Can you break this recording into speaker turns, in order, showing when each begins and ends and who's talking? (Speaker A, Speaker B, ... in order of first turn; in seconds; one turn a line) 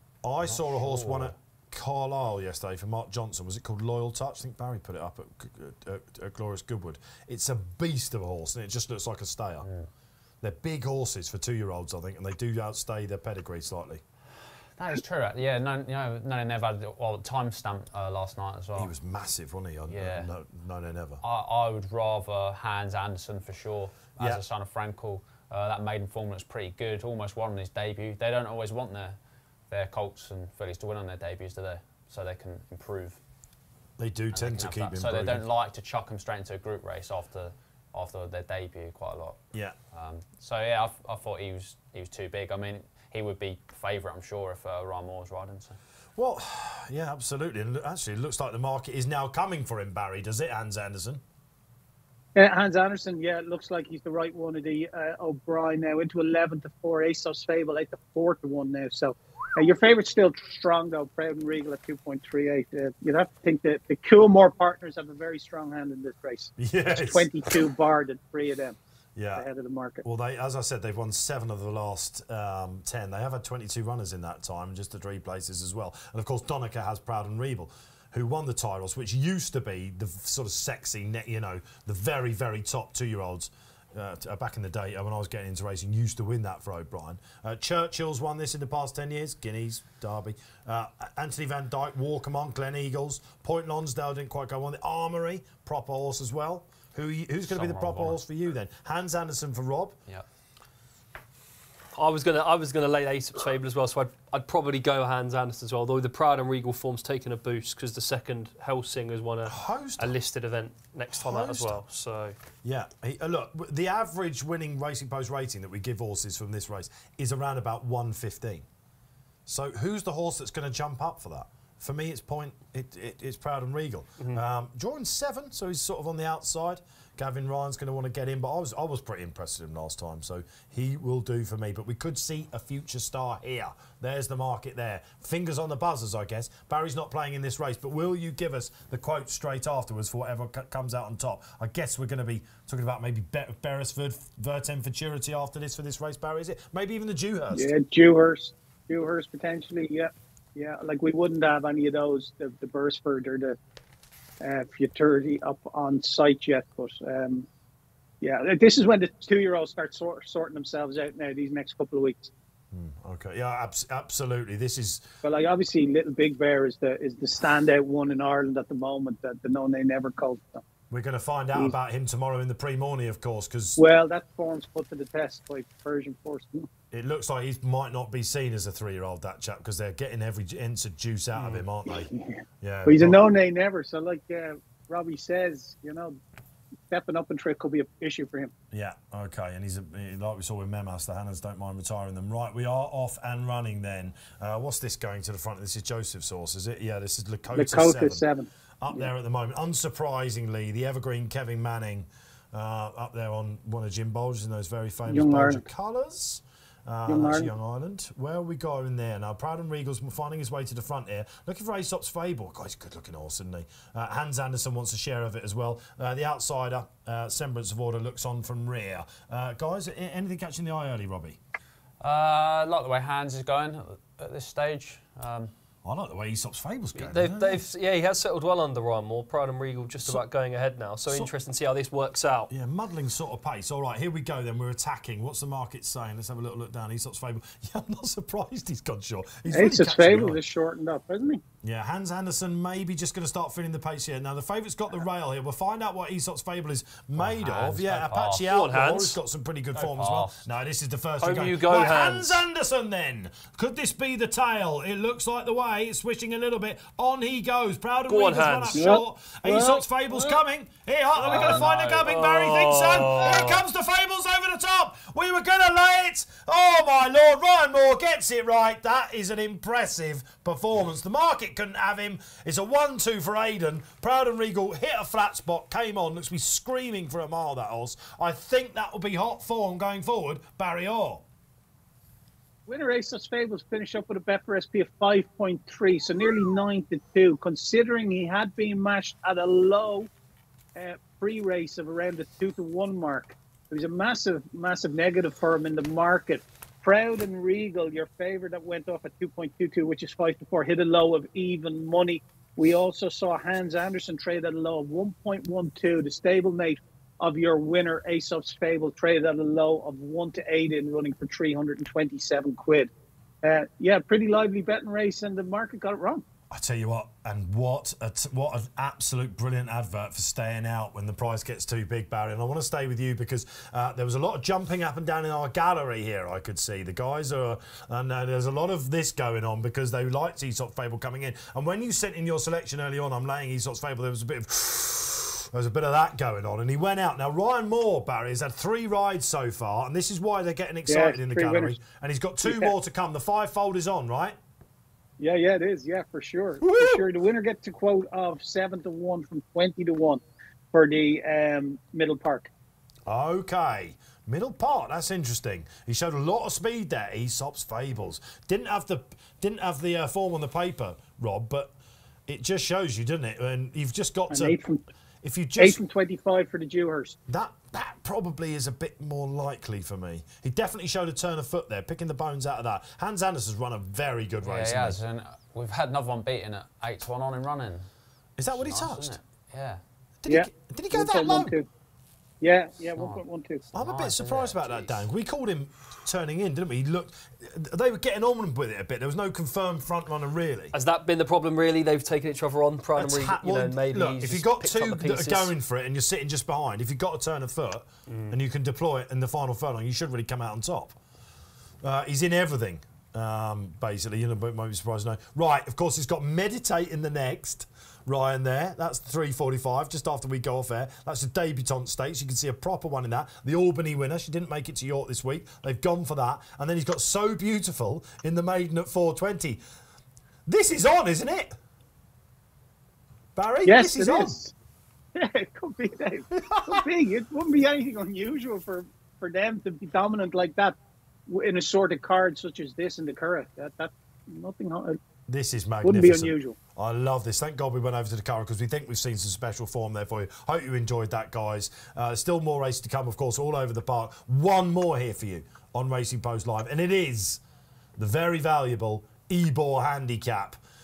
Speaker A: 0.2-9.7
Speaker B: 0.4-1.4
Speaker A: 10.4-14.0
Speaker B: 14.8-18.9
Speaker A: 18.8-21.2
Speaker B: 19.9-20.3
Speaker B: 21.2-29.2
Speaker B: 29.7-33.2
Speaker A: 34.0-35.4
Speaker B: 34.3-39.4
Speaker B: 39.9-45.8
Speaker A: 46.2-51.2
Speaker C: 52.4-68.8
Speaker A: 66.6-67.7
Speaker A: 69.2-69.5
Speaker C: 69.4-70.0
Speaker A: 70.0-100.0
Speaker B: 97.5-98.2
Speaker D: 102.0-112.3
Speaker A: 109.5-110.1
Speaker A: 111.2-111.8
Speaker A: 112.6-118.7
Speaker A: 119.5-147.7
Speaker C: 147.5-153.6
Speaker C: 154.4-157.5
Speaker C: 158.2-162.3
Speaker A: 162.7-165.1
Speaker C: 165.2-170.6
Speaker A: 170.9-173.8
Speaker C: 173.8-176.7
Speaker A: 176.9-182.1
Speaker D: 181.4-181.6
Speaker C: 181.9-186.2
Speaker A: 182.6-183.2
Speaker C: 186.9-188.5
Speaker A: 188.7-198.2
Speaker C: 197.5-199.1
Speaker A: 198.8-221.4
Speaker C: 205.1-205.7
Speaker C: 207.1-207.5
Speaker B: 222.0-225.5
Speaker A: 225.8-227.6
Speaker D: 227.0-232.5
Speaker A: 232.5-240.4
Speaker C: 239.5-241.4
Speaker A: 241.6-281.2
Speaker B: 247.2-248.5
Speaker D: 248.5-249.2
Speaker B: 249.8-250.4
Speaker D: 251.2-252.4
Speaker D: 258.1-258.8
Speaker C: 258.7-260.4
Speaker D: 261.2-263.6
Speaker B: 261.4-262.0
Speaker C: 282.7-290.1
Speaker C: 290.8-312.9
Speaker C: 313.4-316.2
Speaker A: 316.5-344.4
Speaker C: 340.9-341.8
Speaker C: 342.4-342.7
Speaker C: 345.2-350.2
Speaker A: 346.6-347.1
Speaker C: 350.7-352.5
Speaker A: 353.1-361.7
Speaker A: 362.3-364.6
Speaker C: 364.3-364.8
Speaker A: 365.2-365.8
Speaker C: 365.6-367.2
Speaker A: 367.3-375.0
Speaker B: 374.4-377.9
Speaker A: 378.4-379.2
Speaker B: 378.5-379.8
Speaker A: 380.2-381.6
Speaker C: 380.3-381.7
Speaker C: 382.4-383.6
Speaker B: 383.7-385.0
Speaker A: 383.7-390.7
Speaker D: 390.7-395.5
Speaker A: 393.0-401.0
Speaker D: 398.1-398.4
Speaker A: 401.8-419.6
Speaker A: 420.5-421.5
Speaker A: 423.4-424.4
Speaker C: 423.6-424.5
Speaker C: 425.1-430.8
Speaker A: 426.4-426.9
Speaker C: 431.3-435.0
Speaker A: 435.3-447.4
Speaker C: 435.8-436.6
Speaker A: 448.0-450.6